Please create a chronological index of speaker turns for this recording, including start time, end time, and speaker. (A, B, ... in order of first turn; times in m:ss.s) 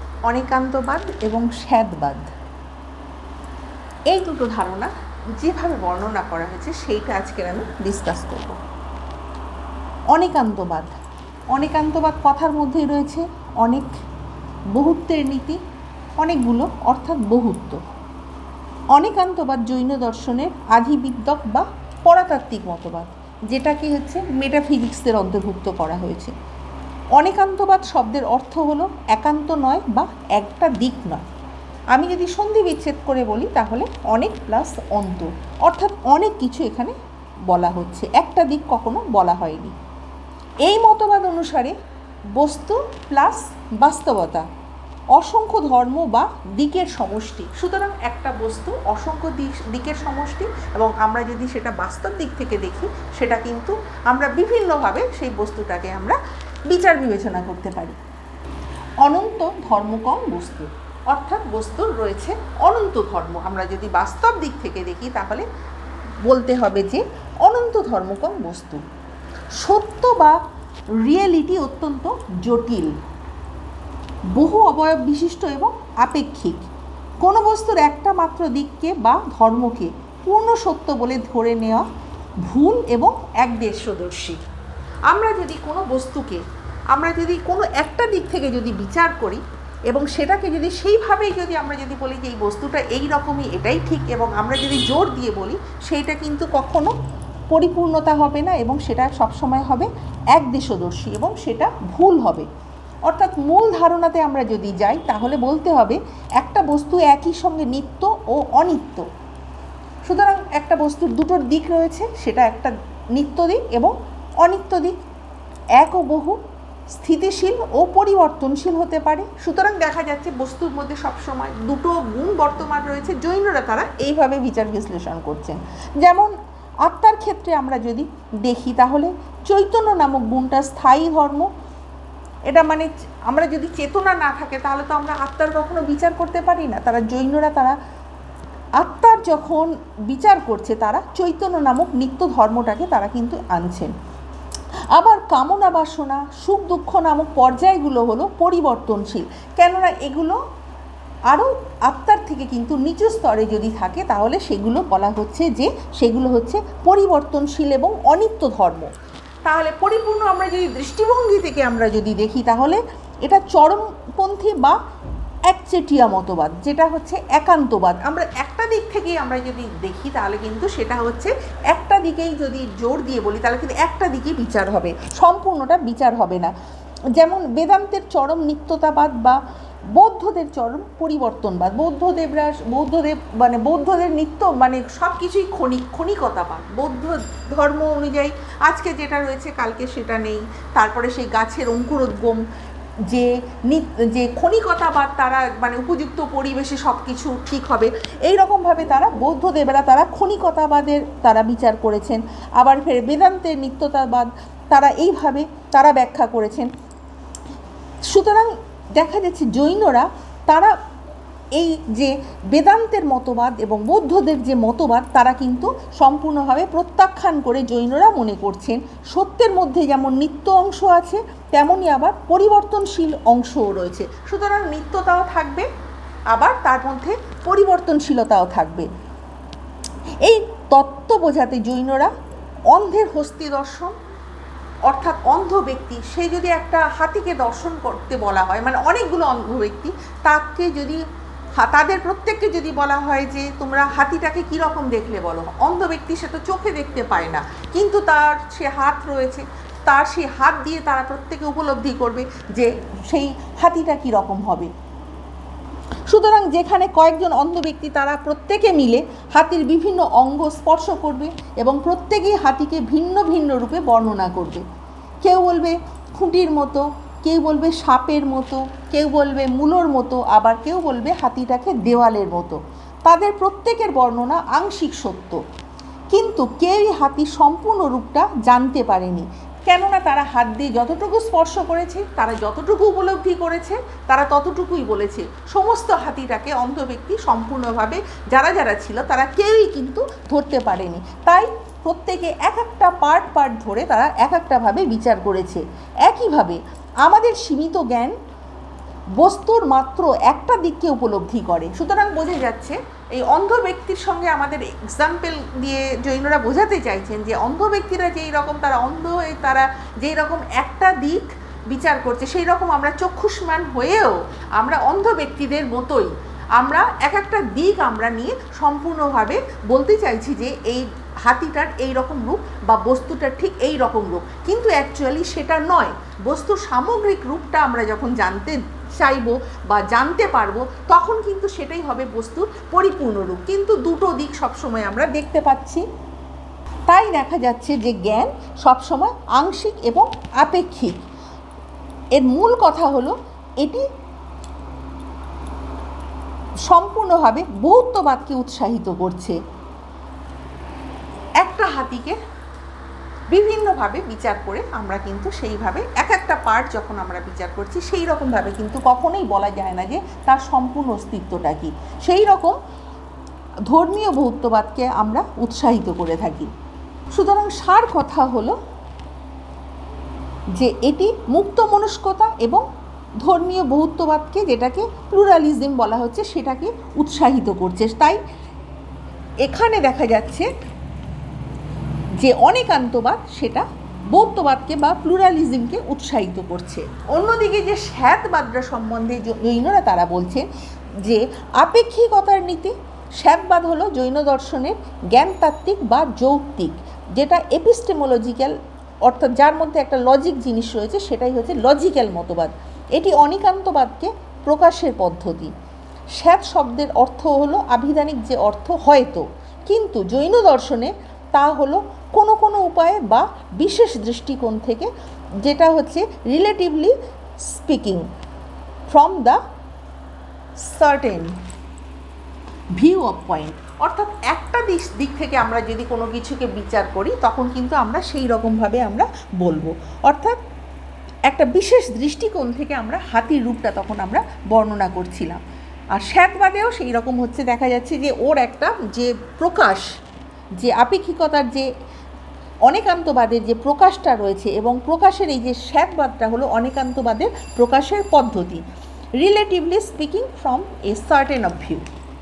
0:00.2-0:02.3 A
0:04.1-0:08.6 A
0:10.1-0:10.9 A
0:11.5-0:13.9 A
0:14.7-0:15.6 A
0:16.2-0:17.8 A
0:18.9-0:26.3 A
0:27.2-0:31.2 A
0:31.9-0:36.9 A
0:37.5-0:39.7 A
0:40.6-0:41.7 A
0:42.3-0:44.5 A
0:45.2-0:56.2 A
0:56.7-0:58.0 A
0:59.0-1:05.4 A
1:06.2-1:08.8 A
1:09.6-1:10.4 A
1:11.0-1:13.0 A
1:14.3-1:16.6 A
1:17.2-1:21.8 A
1:22.4-1:24.4 A
1:25.1-1:36.9 A
1:37.5-1:42.5 A
1:43.1-1:49.0 A
1:50.0-1:55.0 A
1:55.8-1:56.4 A
1:56.9-2:06.3 A
2:06.8-2:11.5 A
2:12.5-2:17.8 A
2:18.8-2:23.9 A
2:24.9-2:30.4 A
2:31.3-2:38.9 A
2:39.4-2:44.8 A
2:45.5-2:56.5 A
2:57.2-2:59.4 A
2:59.9-3:12.4 A
3:13.1-3:26.7 A
3:28.1-3:30.7 A
3:31.5-3:45.7 A
3:46.3-3:48.9 A
3:50.2-3:52.1 A
3:52.7-3:53.9 A
3:54.8-4:01.0 A
4:01.6-4:14.7 A
4:16.1-4:24.6 A
4:25.2-4:35.4 A
4:36.1-4:58.2 A
4:59.2-5:35.8 A
5:36.9-5:41.0 A
5:42.1-5:43.8 A
5:46.7-5:49.4 A
5:51.4-5:52.2 A
5:53.3-6:02.6 A
6:03.7-6:06.5 A
6:07.1-6:08.6 A
6:10.5-6:12.6 A
6:13.2-6:18.2 A
6:19.4-6:20.5 A
6:22.2-6:30.5 A
6:31.0-6:45.5 A
6:46.2-6:54.9 A
6:55.4-6:57.0 A
6:57.5-6:58.0 A
6:58.9-6:59.4 A
7:00.6-7:01.3 A
7:02.8-7:10.4 A
7:11.3-7:15.4 A
7:15.9-7:20.0 A
7:20.6-7:21.7 A
7:22.7-7:28.6 A
7:29.2-7:31.8 A